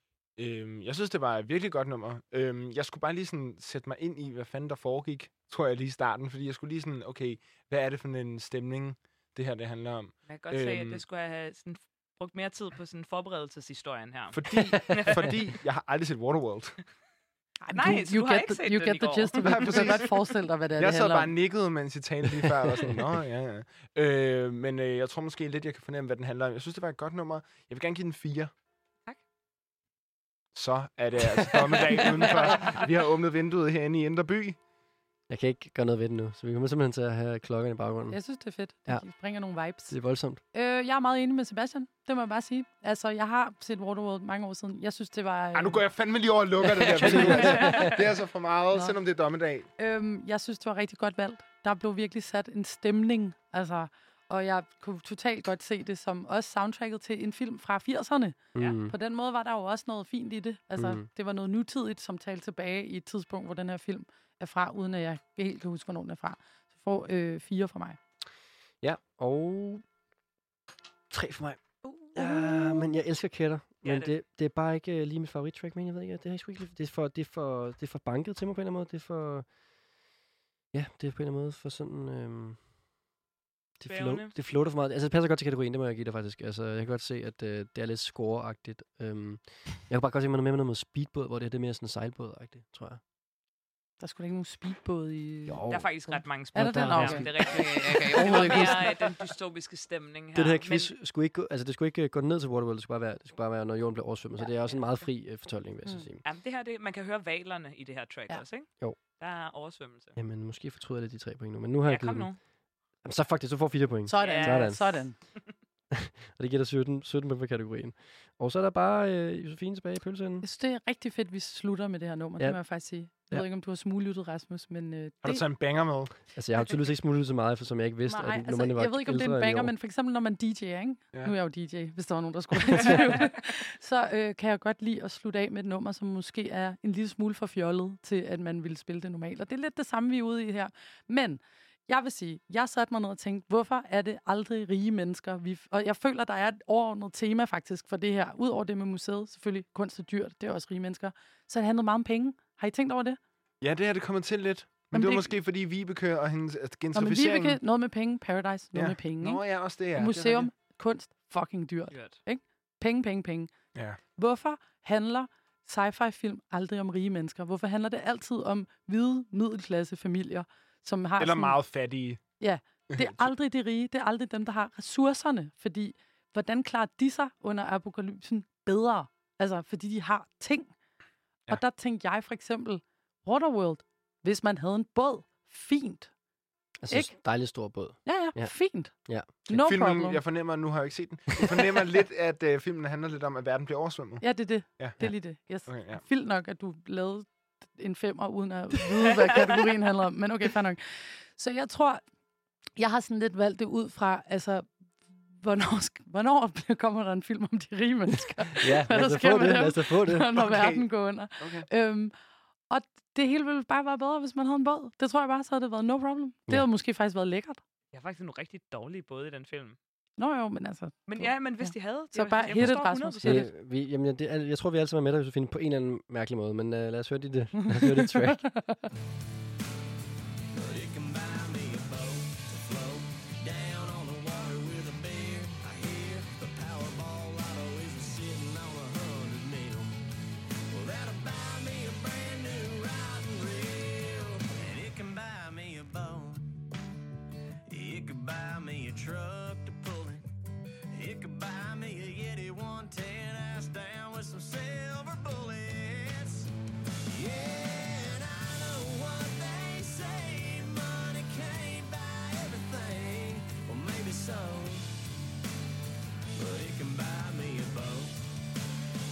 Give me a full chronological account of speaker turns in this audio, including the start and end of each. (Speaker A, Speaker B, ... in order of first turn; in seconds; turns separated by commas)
Speaker A: 0.4-11.0, Speaker B: 10.3-15.3, Speaker A: 14.3-16.8, Speaker C: 14.7-15.1, Speaker D: 17.6-21.3, Speaker B: 17.7-19.9, Speaker A: 19.4-20.2, Speaker A: 20.8-28.5, Speaker A: 30.6-34.6, Speaker C: 35.3-38.2, Speaker D: 38.1-40.0, Speaker C: 39.9-40.4, Speaker D: 40.5-45.8, Speaker A: 45.5-49.7, Speaker C: 46.6-48.0, Speaker D: 47.1-47.7, Speaker D: 49.8-68.0, Speaker C: 58.5-58.9, Speaker C: 60.8-61.1, Speaker C: 68.8-69.8, Speaker C: 71.1-71.6, Speaker D: 71.8-72.8, Speaker C: 72.1-79.5, Speaker B: 73.8-74.1, Speaker C: 80.7-82.6, Speaker C: 83.8-93.0, Speaker B: 83.8-84.3, Speaker D: 94.0-99.1, Speaker C: 95.5-97.6, Speaker B: 95.7-100.9, Speaker C: 98.2-98.6, Speaker C: 100.3-106.2, Speaker B: 106.2-110.2, Speaker C: 110.2-112.3, Speaker B: 111.9-112.4, Speaker C: 113.0-115.1, Speaker D: 114.1-115.2, Speaker B: 114.2-114.7, Speaker C: 115.9-120.5, Speaker D: 120.4-125.4, Speaker A: 125.2-126.2, Speaker C: 126.3-129.7, Speaker D: 128.1-153.2, Speaker C: 132.7-133.0, Speaker A: 153.6-157.6, Speaker D: 154.9-155.3, Speaker D: 156.9-163.5, Speaker A: 158.7-160.5, Speaker B: 161.9-162.2, Speaker D: 164.2-171.6, Speaker A: 171.2-172.2, Speaker D: 172.4-180.7, Speaker A: 172.9-173.3, Speaker D: 181.5-186.1, Speaker C: 186.8-189.5, Speaker D: 188.1-188.9, Speaker D: 189.5-190.2, Speaker A: 189.5-194.2, Speaker D: 194.2-202.0, Speaker A: 195.7-196.0, Speaker D: 202.8-204.7, Speaker D: 205.3-212.1, Speaker C: 208.6-210.3, Speaker A: 210.3-210.9, Speaker A: 211.4-211.7, Speaker D: 212.7-217.6, Speaker B: 217.9-219.8, Speaker D: 220.2-223.5, Speaker B: 221.1-223.4, Speaker C: 222.6-228.6, Speaker D: 227.8-228.8, Speaker E: 230.5-240.0, Speaker E: 240.7-246.6, Speaker E: 247.7-250.2, Speaker E: 250.9-256.5, Speaker E: 257.1-264.9, Speaker E: 266.4-268.2